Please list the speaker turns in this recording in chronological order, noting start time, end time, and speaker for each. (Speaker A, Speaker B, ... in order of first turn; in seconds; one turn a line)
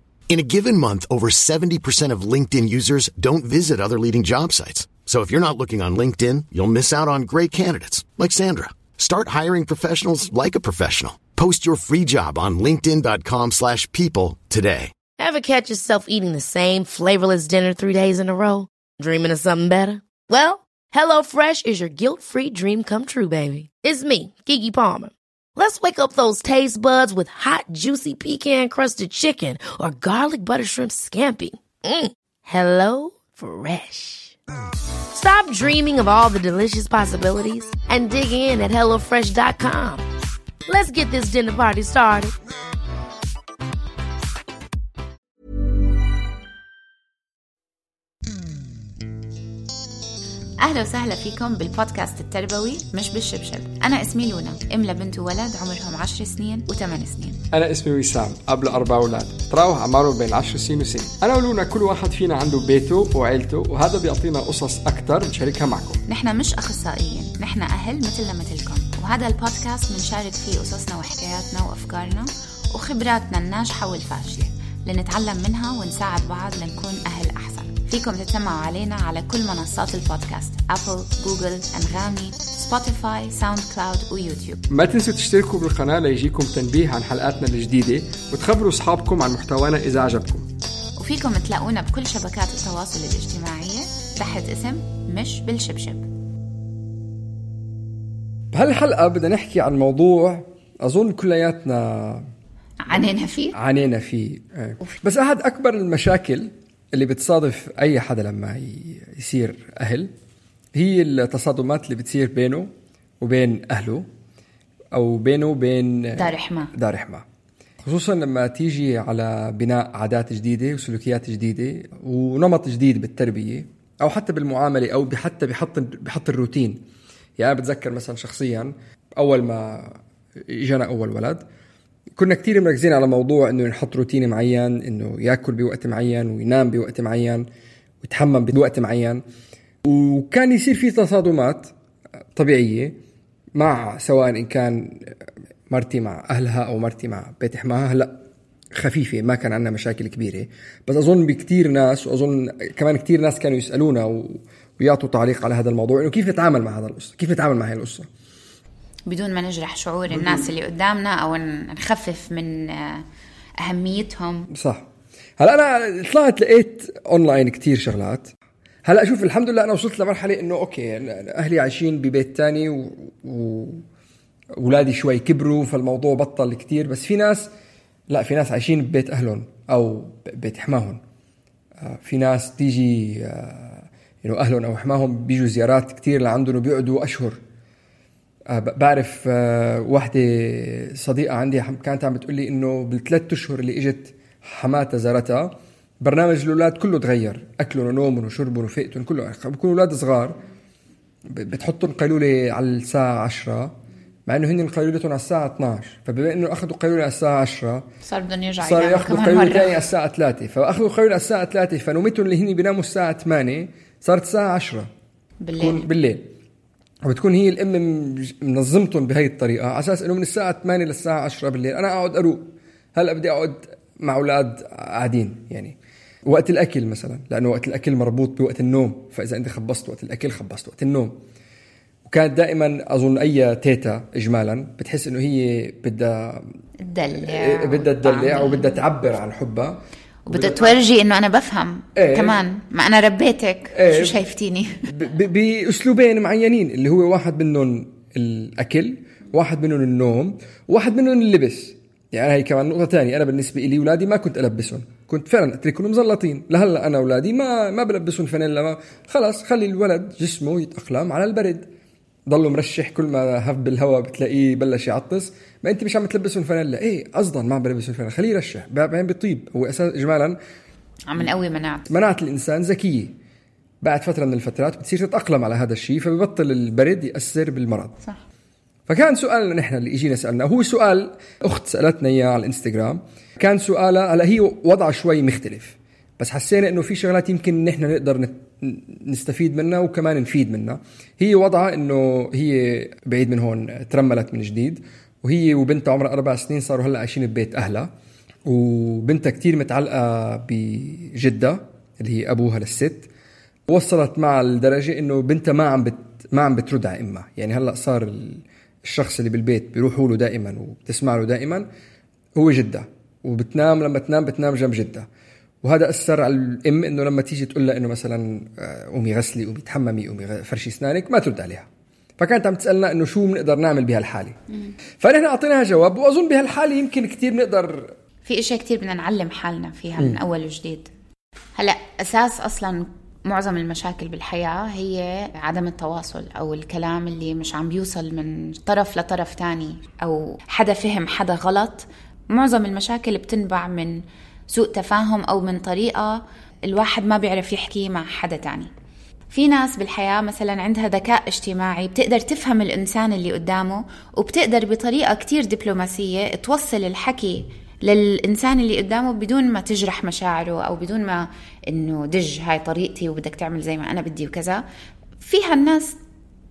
Speaker A: 0.3-14.9
Speaker B: 15.2-34.4
Speaker B: 35.1-40.0
Speaker B: 40.7-42.3
Speaker C: 50.6-57.4
Speaker D: 57.5-66.0
Speaker C: 66.1-84.6
Speaker D: 84.7-90.5
Speaker C: 91.0-96.1
Speaker D: 98.5-102.3
Speaker C: 102.8-103.5
Speaker D: 103.5-110.1
Speaker D: 110.7-114.1
Speaker D: 114.9-117.2
Speaker C: 116.2-116.7
Speaker D: 117.8-126.8
Speaker D: 127.4-131.4
Speaker D: 132.2-137.4
Speaker D: 138.0-139.2
Speaker D: 139.8-141.7
Speaker D: 142.3-143.0
Speaker D: 143.5-145.2
Speaker D: 145.7-148.2
Speaker D: 148.7-158.1
Speaker C: 159.1-163.0
Speaker D: 160.1-160.4
Speaker C: 163.6-164.5
Speaker D: 164.5-164.9
Speaker D: 165.4-168.3
Speaker D: 168.8-173.8
Speaker D: 174.6-177.5
Speaker D: 178.1-181.0
Speaker D: 181.8-187.4
Speaker D: 188.5-200.4
Speaker D: 201.3-207.8
Speaker C: 208.0-209.8
Speaker D: 208.6-214.9
Speaker C: 215.4-215.8
Speaker D: 215.6-216.3
Speaker D: 217.0-231.2
Speaker D: 232.0-236.5
Speaker C: 236.8-238.8
Speaker D: 237.1-240.8
Speaker C: 240.2-244.9
Speaker D: 241.9-242.4
Speaker D: 243.7-244.2
Speaker D: 244.9-261.7
Speaker D: 262.3-270.4
Speaker C: 271.1-271.9
Speaker D: 271.9-273.1
Speaker D: 273.8-278.0
Speaker D: 278.9-297.9
Speaker D: 298.4-303.1
Speaker D: 303.7-311.7
Speaker D: 312.4-315.1
Speaker D: 315.6-324.4
Speaker D: 325.0-327.9
Speaker C: 328.2-330.9
Speaker C: 331.6-348.7
Speaker C: 349.3-364.6
Speaker C: 365.2-365.9